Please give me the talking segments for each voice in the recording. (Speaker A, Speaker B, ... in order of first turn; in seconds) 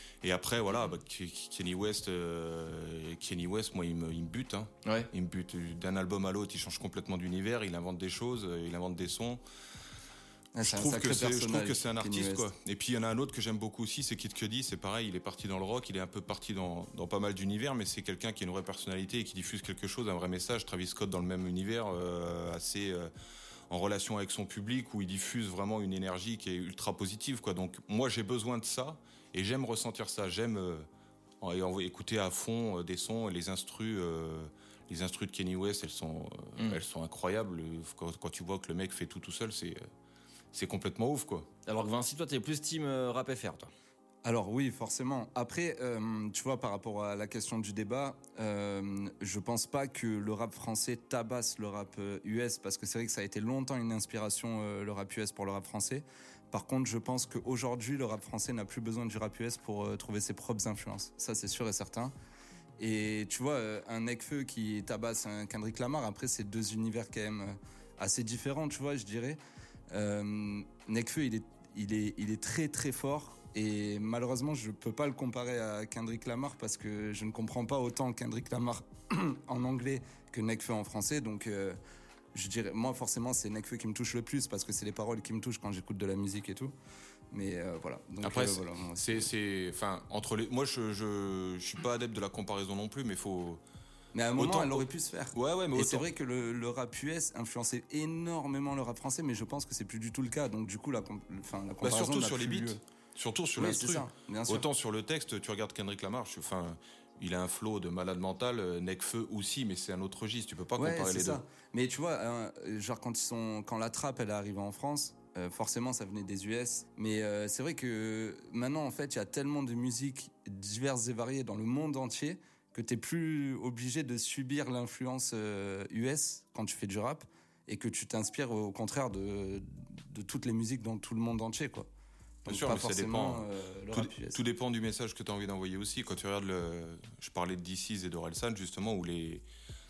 Speaker A: 0.2-9.4, 10.6-23.1, 23.7-30.9, 31.4-39.8, 40.5-41.5, 88.2-93.6, 94.4-96.1, 101.8-111.4, 132.5-139.4
Speaker B: 4.8-5.1, 41.7-43.7
Speaker C: 10.5-12.5, 44.2-62.1, 62.8-81.8, 82.3-86.7, 87.3-89.3, 94.1-102.8, 103.6-104.7, 110.8-131.9, 132.4-134.4